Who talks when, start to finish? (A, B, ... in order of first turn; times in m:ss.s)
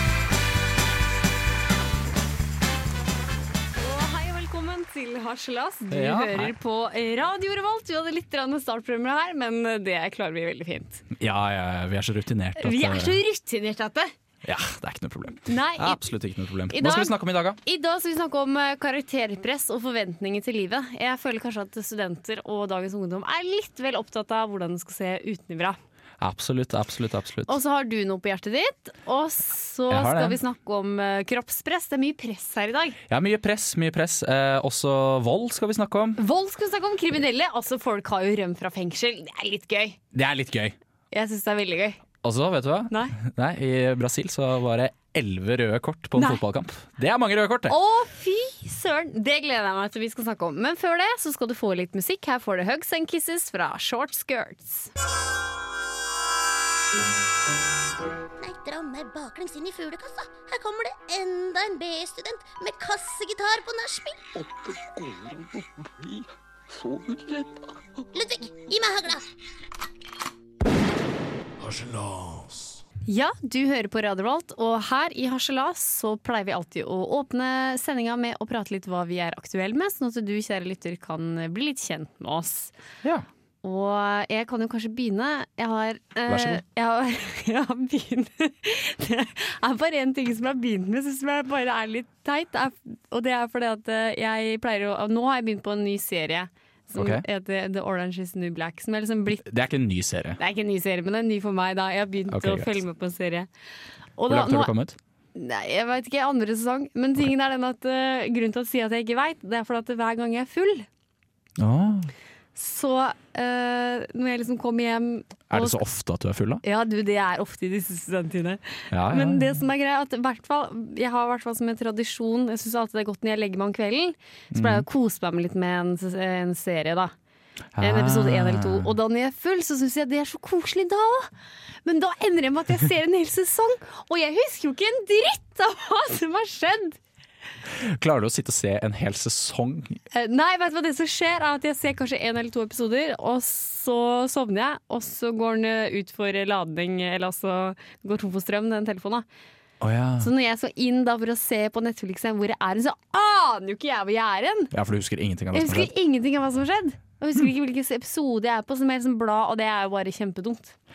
0:03.8-0:11.0 A
0:05.9-0:06.5 B
0:11.1-0:13.2 B
0:12.6-0:14.1 A
0:14.4-0:17.6 B
0:15.5-0:16.1 A
0:16.7-0:25.8 A
0:26.2-0:27.6 B
0:27.5-0:33.0 A
0:29.9-0:30.4 B
0:33.1-0:36.2 B
0:36.2-0:40.0 A
0:40.1-0:40.8 B
0:41.1-0:42.0 A
0:42.2-0:47.8 B
0:42.9-0:43.1 A
0:46.2-0:46.4 A
0:47.7-0:54.9 A
0:58.4-1:04.2 C
1:04.4-1:08.0 D
1:08.1-1:09.2 C
1:11.6-1:12.8 D
1:13.1-1:22.7 A
1:23.6-1:39.4 A
1:26.3-1:26.6 B
1:36.9-1:37.2 B
1:39.4-1:40.4 B
1:40.4-1:43.5 A
1:42.3-1:42.7 B
1:44.2-1:44.7 A
1:44.3-1:45.0 B
1:45.3-1:50.9 A
1:51.6-1:52.1 B
1:52.5-1:55.8 A
1:55.5-1:56.6 B
1:56.6-2:07.1 A
1:58.9-1:59.5 B
2:04.5-2:04.8 B
2:07.8-2:08.9 B
2:07.8-2:11.3 A
2:11.8-2:17.0 A
2:17.7-2:20.0 B
2:20.1-2:29.2 A
2:29.8-2:30.3 B
2:30.2-2:34.7 A
2:34.7-2:35.9 B
2:35.5-2:40.7 A